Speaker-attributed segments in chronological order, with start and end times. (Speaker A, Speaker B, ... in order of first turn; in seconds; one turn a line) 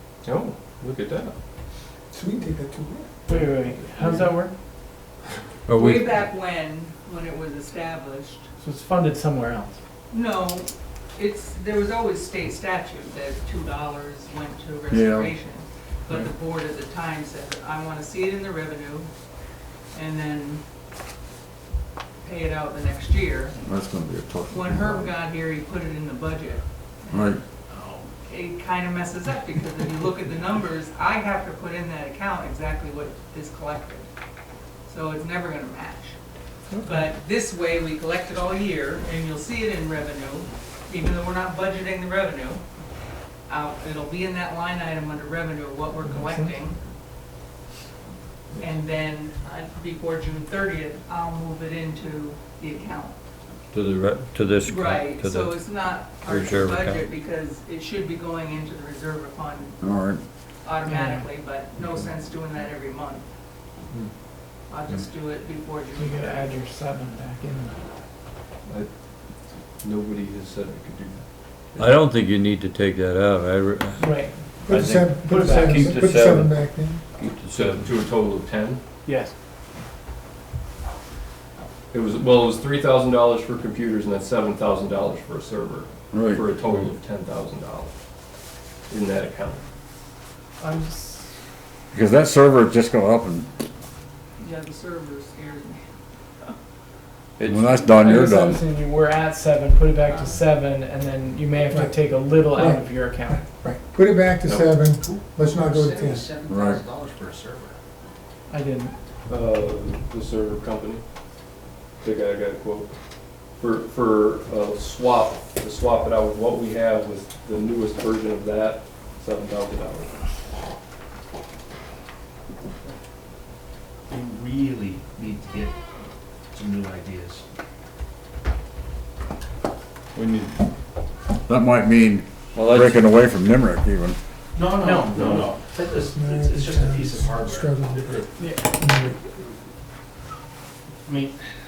Speaker A: 0.2-1.4
Speaker B: 2.1-3.3
Speaker A: 3.3-4.4
Speaker C: 3.3-4.5
Speaker D: 5.7-6.2
Speaker E: 5.7-8.5
Speaker C: 8.6-9.8
Speaker E: 10.1-19.1
Speaker F: 14.9-15.3
Speaker E: 19.9-20.6
Speaker E: 22.2-23.6
Speaker F: 23.6-25.1
Speaker E: 24.5-34.1
Speaker F: 27.1-27.4
Speaker E: 34.9-36.2
Speaker C: 36.7-37.0
Speaker E: 36.8-42.6
Speaker E: 43.5-46.8
Speaker C: 46.1-46.5
Speaker E: 48.6-53.2
Speaker D: 53.7-57.1
Speaker E: 54.6-59.8
Speaker F: 59.8-60.2
Speaker E: 60.6-63.2
Speaker C: 60.8-61.3
Speaker E: 64.7-66.6
Speaker C: 65.9-67.8
Speaker A: 68.7-68.9
Speaker A: 69.8-72.0
Speaker D: 71.8-77.9
Speaker C: 74.0-74.6
Speaker B: 74.6-77.0
Speaker C: 75.3-76.0
Speaker A: 77.5-78.8
Speaker C: 79.0-79.3
Speaker A: 81.9-87.9
Speaker F: 86.1-86.4
Speaker A: 88.9-89.7
Speaker C: 90.6-91.3
Speaker F: 91.9-93.5
Speaker E: 94.4-95.8
Speaker D: 97.4-98.2
Speaker F: 97.5-98.6
Speaker C: 98.0-103.4
Speaker E: 100.0-100.4
Speaker B: 101.7-106.3
Speaker A: 104.5-104.8
Speaker G: 105.0-107.8
Speaker F: 106.5-106.8
Speaker C: 108.5-108.9
Speaker A: 109.3-111.0
Speaker A: 112.0-112.9
Speaker A: 113.5-120.2
Speaker G: 124.1-125.8
Speaker G: 126.5-127.4
Speaker D: 130.1-130.6
Speaker F: 131.5-134.2
Speaker D: 132.5-133.3
Speaker G: 134.6-138.3
Speaker C: 134.8-135.2
Speaker B: 135.9-139.2
Speaker C: 138.4-138.7
Speaker G: 141.1-141.4